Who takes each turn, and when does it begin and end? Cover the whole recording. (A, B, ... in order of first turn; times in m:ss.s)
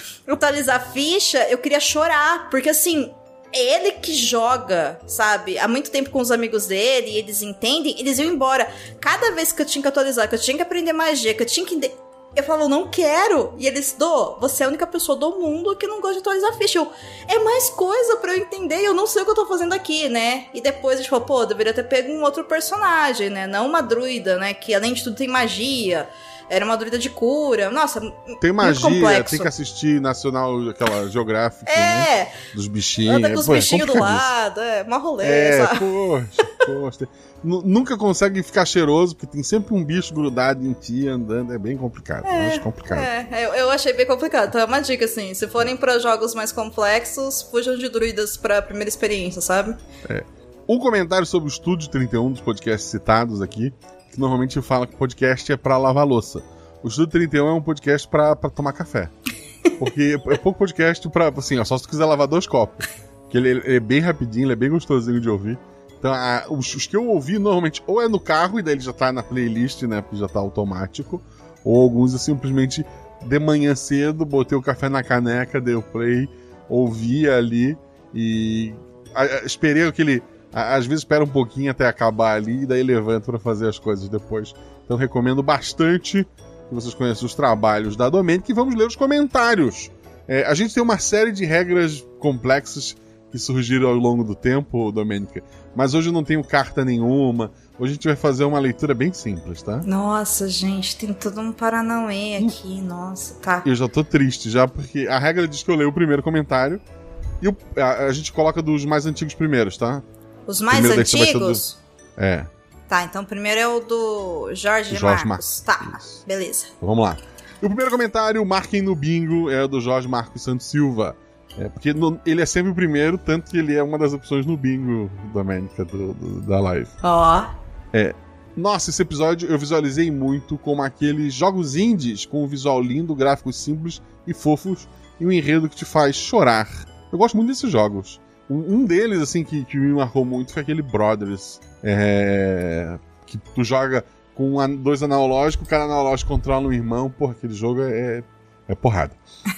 0:00.3-0:29.5 A
0:28.4-0:34.3 B
0:31.7-0:32.4 A
0:33.1-0:35.9 A
0:35.2-0:43.1 B
0:42.2-0:49.8 A
0:50.0-0:59.1 B
0:59.8-1:39.9 B
1:39.8-1:43.6 A
1:43.6-1:46.8 B
1:47.4-1:50.0 B
1:50.5-1:51.8 A
1:50.7-1:51.6 B
1:52.2-1:52.5 B
1:52.9-1:56.7 A
1:54.9-1:56.2 B
1:56.8-2:07.0 B
2:07.0-2:07.5 A
2:07.9-2:29.2 B